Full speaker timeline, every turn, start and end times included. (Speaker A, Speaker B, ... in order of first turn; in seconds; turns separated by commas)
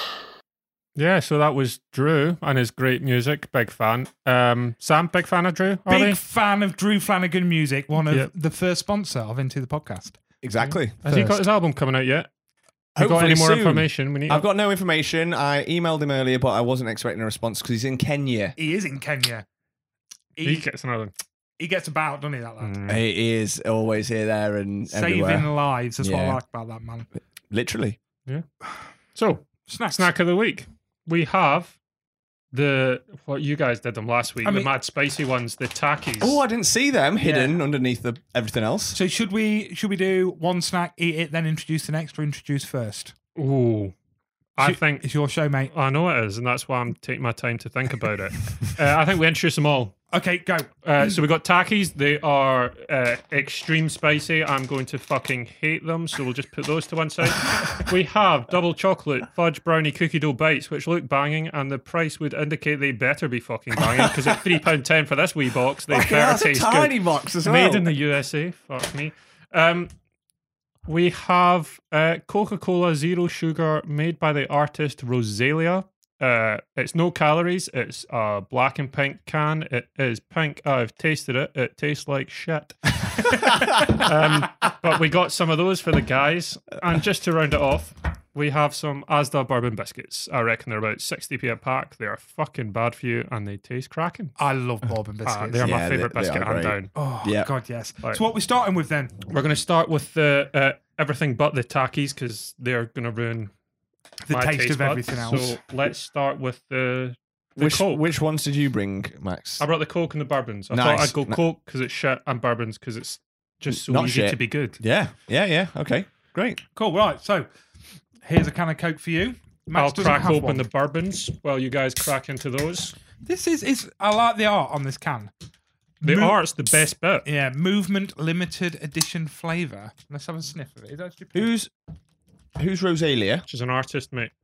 Speaker A: 1.0-6.2, Speaker B: 5.9-10.2, Speaker C: 10.4-11.0, Speaker A: 11.0-12.3, Speaker C: 13.0-18.6, Speaker A: 13.0-14.4, Speaker B: 18.6-19.5, Speaker B: 20.4-20.7, Speaker A: 20.4-21.1, Speaker B: 21.6-22.8, Speaker A: 22.6-23.0, Speaker C: 22.9-26.4, Speaker B: 24.9-27.1, Speaker C: 27.5-28.0, Speaker A: 29.1-31.8, Speaker B: 29.7-30.1, Speaker A: 32.5-36.4, Speaker B: 34.4-34.7, Speaker C: 36.2-39.0, Speaker B: 37.2-37.6, Speaker B: 38.9-43.1, Speaker A: 43.4-43.9, Speaker A: 44.6-45.1, Speaker B: 44.6-45.7, Speaker A: 45.7-50.0, Speaker B: 50.1-51.1, Speaker A: 50.9-69.9, Speaker C: 63.8-64.4, Speaker C: 65.9-67.9, Speaker A: 70.9-94.4, Speaker B: 94.4-95.7, Speaker A: 95.2-96.9, Speaker C: 95.6-97.5, Speaker B: 97.0-99.2, Speaker A: 99.3-103.5, Speaker B: 104.3-105.5, Speaker A: 104.3-108.0, Speaker C: 107.6-109.7, Speaker A: 109.6-114.8, Speaker C: 110.7-111.4, Speaker C: 113.7-116.6, Speaker B: 116.8-117.5, Speaker B: 118.2-120.6, Speaker A: 119.8-123.0, Speaker B: 123.2-125.3, Speaker B: 126.0-126.4, Speaker A: 126.0-127.3, Speaker B: 127.2-131.5, Speaker C: 131.3-131.7, Speaker C: 132.6-133.4, Speaker A: 133.5-134.3